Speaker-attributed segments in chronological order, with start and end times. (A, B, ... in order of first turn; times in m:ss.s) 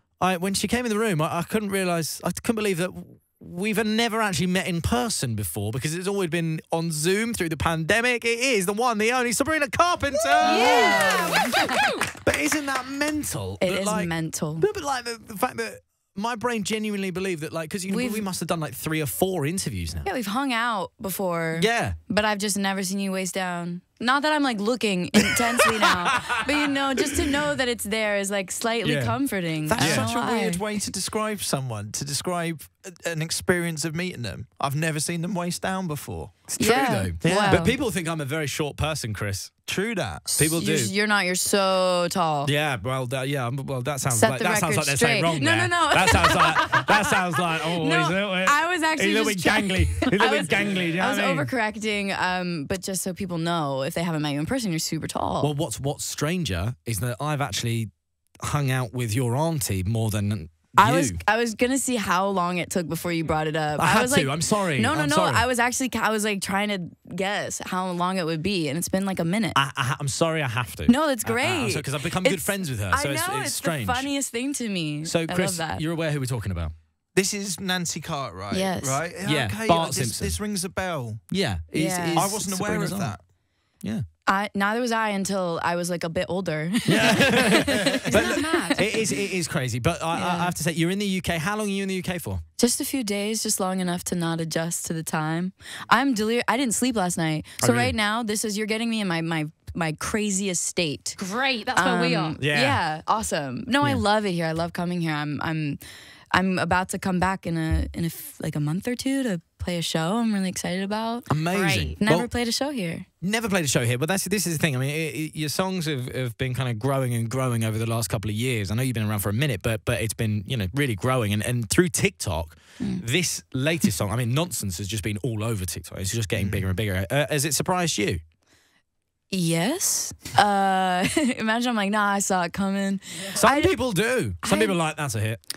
0:00.2-0:11.3 A
0:10.4-0:11.7 B
0:10.4-0:12.1 C
0:12.2-0:20.1 A
0:13.6-0:14.7 B
0:17.9-0:18.3 B
0:20.0-0:30.6 B
0:21.5-0:22.0 A
0:28.8-0:30.1 A
0:29.8-0:36.4 D
0:36.5-0:39.5 A
0:36.6-0:37.8 B
0:37.2-0:37.6 D
0:39.7-0:40.3 D
0:40.3-0:42.5 B
0:40.3-0:40.9 A
0:42.4-0:51.5 A
0:44.1-0:55.5 B
0:55.4-0:57.9 A
0:58.4-1:01.2 A
1:00.8-1:09.6 B
1:03.8-1:05.4 A
1:09.6-1:14.1 A
1:10.9-1:15.8 B
1:15.0-1:16.7 A
1:17.2-1:23.2 D
1:18.5-1:19.0 B
1:19.2-1:20.4 A
1:21.3-1:23.2 A
1:21.7-1:22.4 B
1:24.3-1:28.8 B
1:26.9-1:32.4 A
1:28.1-1:29.0 C
1:30.1-1:30.5 B
1:32.6-1:41.2 B
1:37.6-1:38.0 A
1:41.2-1:42.4 C
1:41.8-1:45.8 B
1:42.4-1:42.8 A
1:46.3-1:53.1 B
1:51.3-1:52.3 A
1:51.5-1:51.9 C
1:53.2-2:08.2 A
2:02.8-2:03.0 B
2:06.4-2:06.7 D
2:09.3-2:13.8 B
2:13.4-2:15.4 A
2:14.4-2:14.8 B